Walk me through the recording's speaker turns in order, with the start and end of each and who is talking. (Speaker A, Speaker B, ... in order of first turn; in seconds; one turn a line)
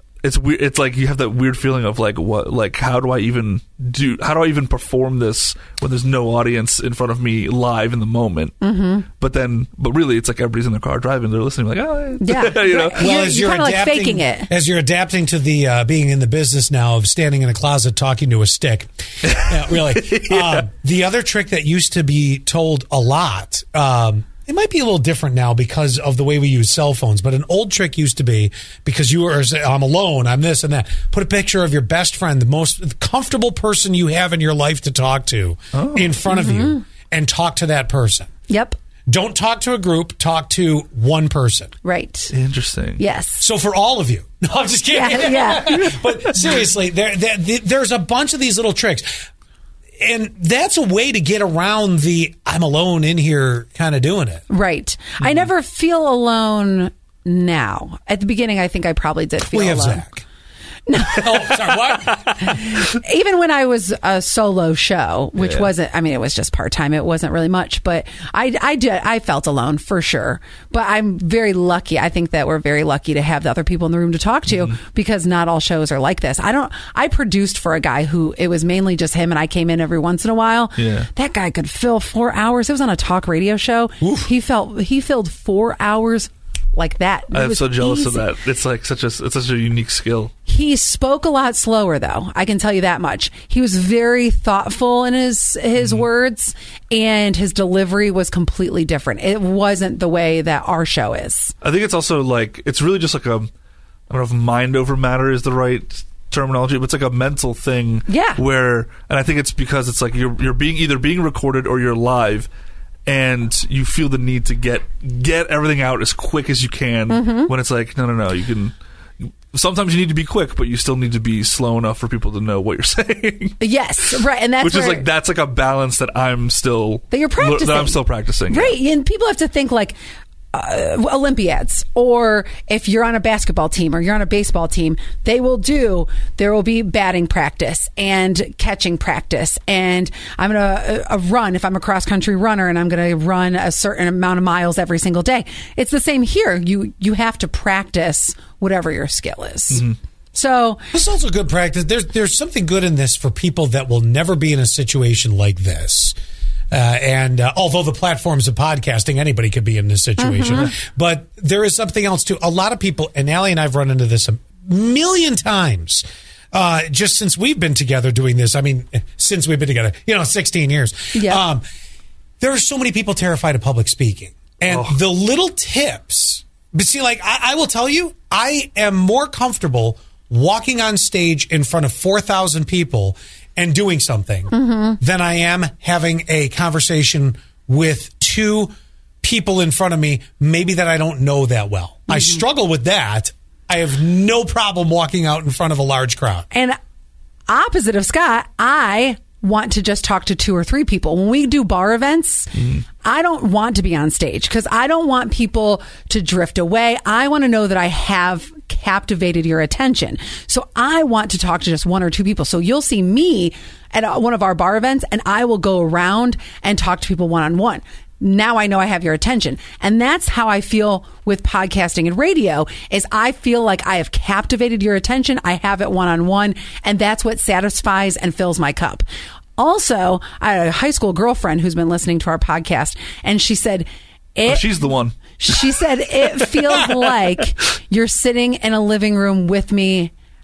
Speaker A: 0.2-8.6
Speaker B: 8.6-9.1
Speaker A: 9.2-13.1
Speaker B: 12.2-14.5
Speaker C: 12.9-38.3
Speaker A: 19.2-20.6
Speaker A: 35.7-36.2
Speaker B: 36.3-36.8
Speaker B: 38.5-38.8
Speaker C: 39.1-41.7
Speaker B: 41.8-42.3
Speaker A: 42.3-43.0
Speaker B: 43.0-43.5
Speaker C: 43.4-49.1
Speaker B: 44.9-46.4
Speaker C: 50.0-54.4
Speaker B: 54.5-60.1
Speaker C: 59.4-60.2
Speaker B: 60.9-88.3
Speaker C: 61.0-62.6
Speaker A: 65.4-65.7
Speaker A: 80.8-81.1
Speaker C: 84.0-84.3
Speaker A: 87.3-90.3
Speaker B: 90.5-101.5
Speaker A: 95.8-96.1
Speaker A: 101.6-103.5
Speaker A: 104.1-112.5
Speaker B: 108.1-108.4
Speaker A: 113.1-118.8
Speaker B: 117.1-117.5
Speaker A: 119.5-123.6
Speaker B: 123.6-125.1
Speaker A: 124.6-128.8
Speaker B: 127.1-130.0
Speaker B: 130.5-150.8
Speaker A: 149.7-149.9
Speaker C: 150.9-156.2
Speaker C: 156.7-171.6
Speaker B: 160.2-160.7
Speaker B: 171.1-171.4
Speaker C: 172.4-188.7
Speaker A: 174.6-175.0
Speaker B: 184.5-185.0
Speaker C: 189.2-196.5
Speaker B: 192.1-192.4
Speaker B: 196.5-196.8
Speaker B: 197.5-229.0
Speaker B: 229.6-234.7
Speaker A: 234.5-235.2
Speaker B: 235.4-240.1